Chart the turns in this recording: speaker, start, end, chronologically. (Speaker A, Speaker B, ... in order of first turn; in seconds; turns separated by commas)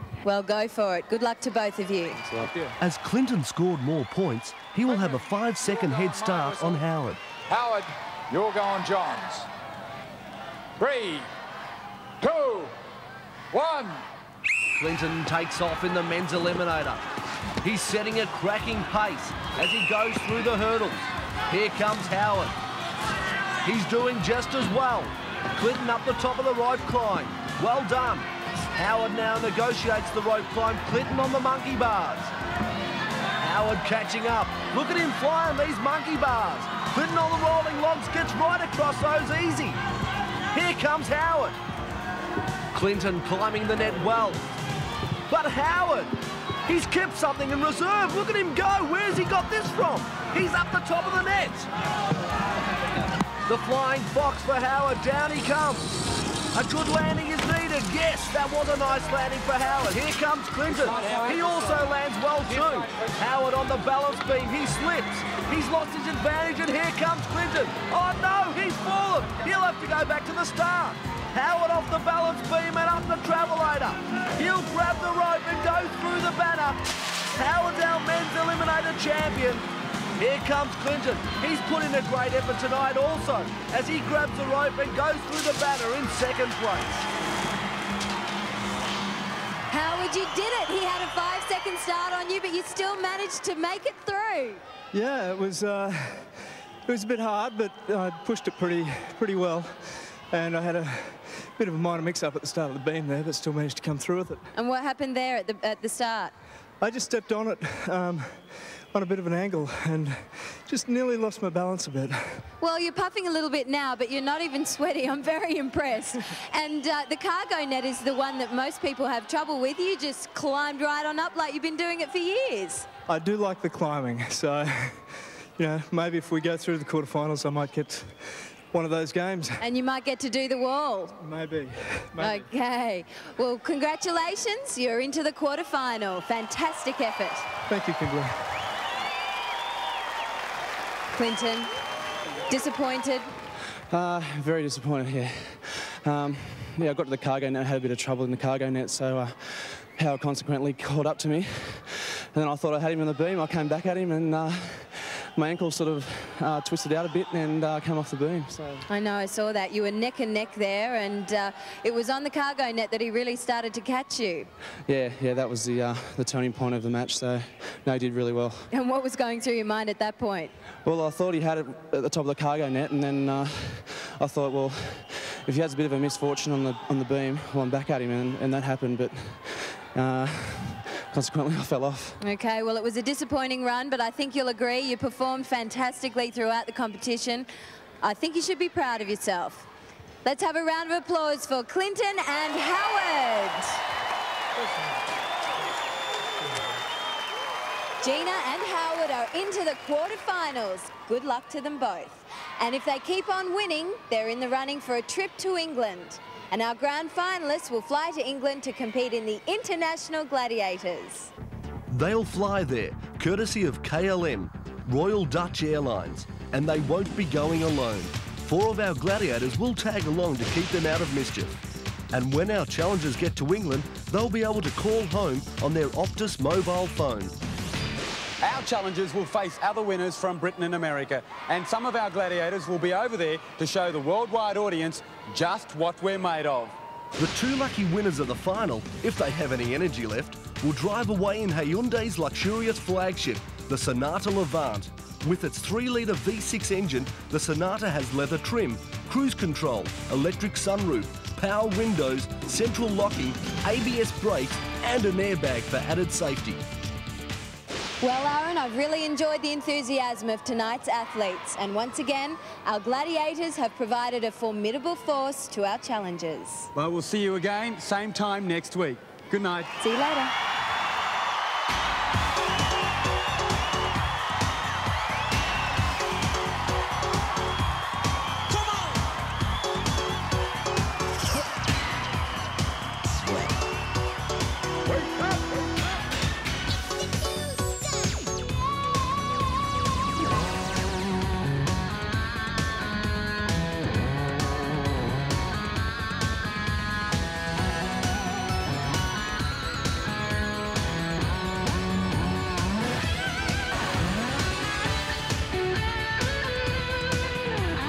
Speaker A: 0.2-2.2, Speaker B: 2.2-2.5, Speaker C: 2.5-2.8, Speaker D: 2.8-7.2, Speaker E: 4.8-6.8, Speaker E: 7.5-9.5, Speaker E: 10.8-11.3, Speaker E: 12.2-12.8, Speaker E: 13.5-14.1, Speaker D: 14.8-17.1, Speaker D: 17.6-22.6, Speaker D: 23.6-32.3, Speaker D: 33.4-39.8, Speaker D: 40.5-41.6, Speaker D: 42.7-44.4, Speaker D: 45.3-51.7, Speaker D: 53.5-56.0, Speaker D: 56.5-87.1, Speaker A: 89.7-94.6, Speaker C: 94.9-104.5, Speaker A: 104.5-106.3, Speaker C: 106.8-112.5, Speaker A: 112.6-122.9, Speaker C: 123.1-129.6, Speaker A: 129.6-131.2, Speaker C: 131.2-132.5, Speaker A: 132.2-137.5, Speaker C: 137.7-138.6, Speaker A: 141.1-141.7, Speaker A: 142.5-143.3, Speaker B: 143.9-158.8, Speaker A: 158.9-164.5, Speaker B: 164.9-168.7, Speaker A: 168.7-170.6, Speaker B: 170.8-182.2, Speaker A: 182.2-187.5, Speaker A: 188.0-189.7, Speaker A: 190.2-193.8, Speaker A: 198.0-211.3, Speaker D: 211.9-221.6, Speaker D: 222.1-227.4, Speaker F: 228.4-236.8, Speaker D: 237.2-256.6, Speaker A: 258.0-266.7, Speaker F: 266.8-269.7, Speaker A: 269.8-270.3